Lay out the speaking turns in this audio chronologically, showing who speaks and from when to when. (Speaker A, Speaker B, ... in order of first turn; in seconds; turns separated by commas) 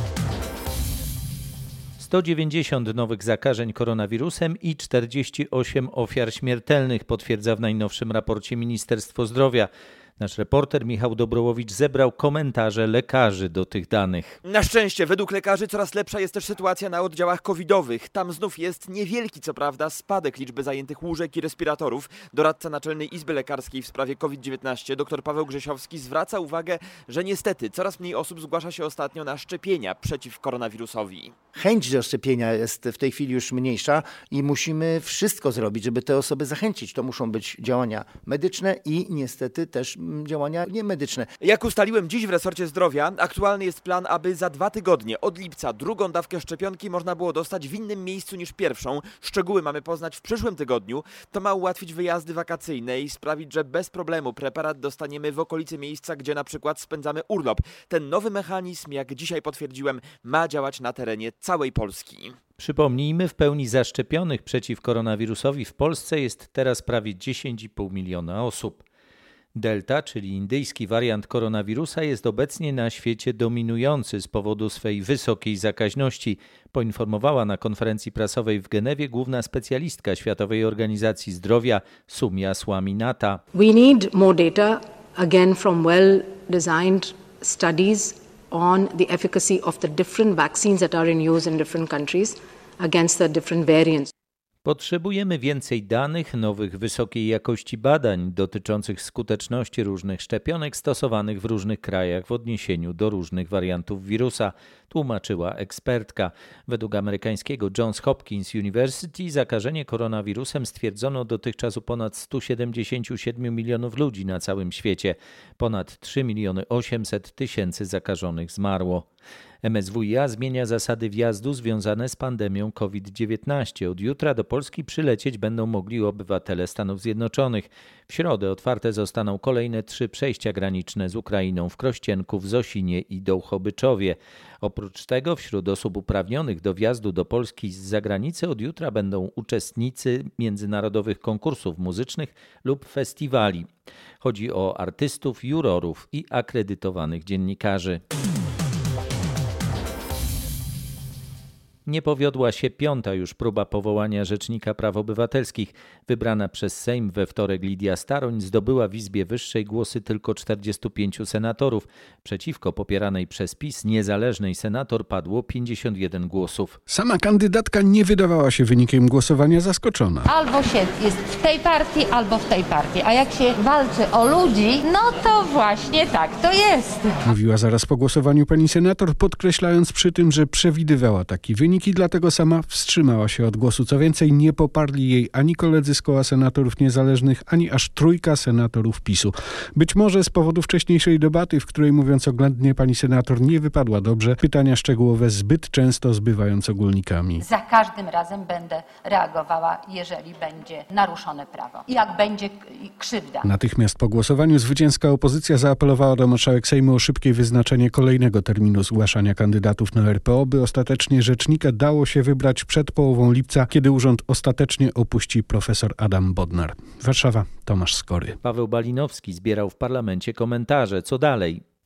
Speaker A: 2.0-14.4, Speaker B: 14.4-31.3, Speaker C: 31.5-41.3, Speaker B: 41.4-62.3, Speaker A: 62.6-68.8, Speaker A: 69.5-83.4, Speaker D: 83.5-94.1, Speaker A: 94.6-119.0, Speaker A: 119.6-143.7, Speaker A: 144.2-148.0, Speaker A: 151.8-166.8, Speaker E: 166.9-170.3, Speaker F: 170.2-177.1, Speaker E: 177.2-197.4, Speaker F: 197.4-203.4, Speaker E: 203.4-218.4, Speaker A: 218.4-221.6